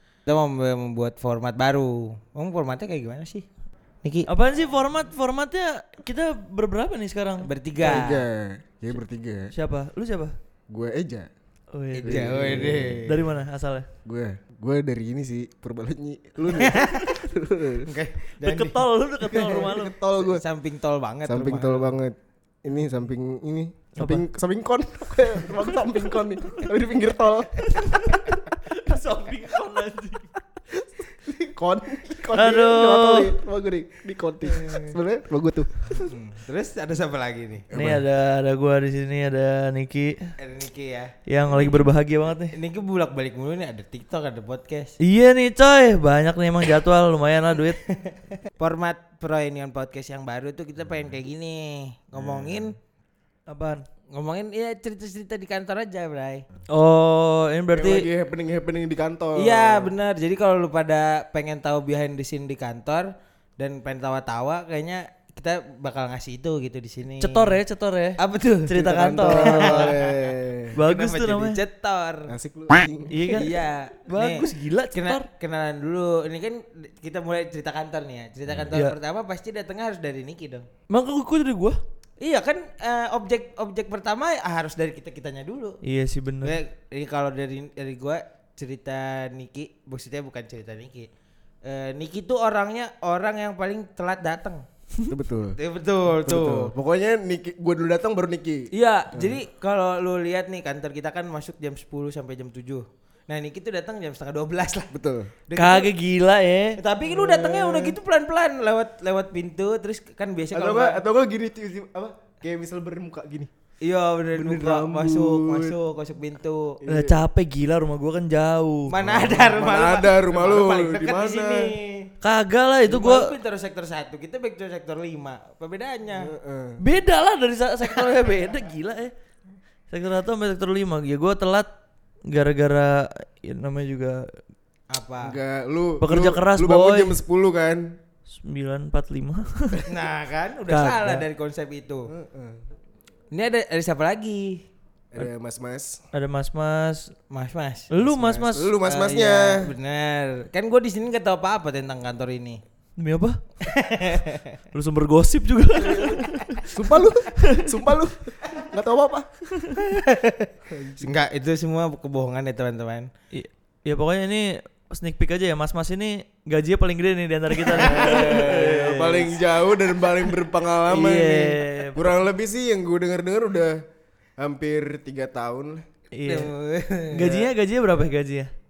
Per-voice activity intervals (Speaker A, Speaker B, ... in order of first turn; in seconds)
Speaker A: 0.2-3.5, 4.0-4.3, 7.4-8.2, 11.9-13.2, 16.5-17.2, 17.9-21.9, 34.5-34.9, 36.0-37.7, 40.4-41.9, 42.5-44.9, 47.8-52.7, 54.1-56.5, 59.4-63.1, 63.6-67.6, 68.2-68.7, 69.3-70.2, 70.8-72.3, 73.3-80.7, 82.2-85.8, 86.4-91.1, 91.6-94.6, 95.6-96.7, 98.7-104.9, 105.5-105.9, 106.8-111.0, 113.8-116.8, 118.9-122.1, 122.9-126.3, 128.0-128.2, 134.9-135.4, 139.8-142.1, 143.3-144.6, 147.3-147.9, 148.8-152.6, 153.6-154.5, 159.8-163.1, 176.2-177.5
Speaker B: 4.3-8.1, 9.5-10.3, 11.7-13.9, 18.4-20.0, 24.0-24.2, 25.5-26.0, 27.6-30.3, 32.3-33.4, 37.7-40.1, 41.3-42.5, 45.0-47.8, 53.5-53.8, 56.7-58.1, 67.2-69.9, 70.7-71.6, 73.1-75.3, 80.9-81.8, 85.8-86.6, 105.6-106.8, 116.9-118.9, 122.2-123.3, 126.8-129.1, 129.9-131.7, 132.3-134.2, 136.0-137.2, 138.3-139.8, 140.7-141.2, 146.1-147.1, 147.9-148.8, 153.0-153.7, 154.7-157.8, 163.3-169.4, 170.8-172.2, 176.1-176.5, 177.1-178.5
Speaker C: 7.8-9.5, 10.7-11.3, 12.1-13.1, 14.1-17.9, 19.3-20.4, 21.2-28.3, 30.7-36.1, 37.7-38.0, 52.1-52.7, 57.7-59.9, 68.8-70.8, 72.3-73.5, 95.1-99.4, 104.9-105.3, 107.0-108.0, 110.5-113.5, 114.3-115.8, 116.8-117.2, 119.0-121.7, 126.1-126.8, 135.2-137.9, 142.1-142.6, 145.1-146.0, 148.0-149.7, 155.8-156.2, 156.7-159.3, 160.7-161.1, 167.7-173.8, 174.4-175.8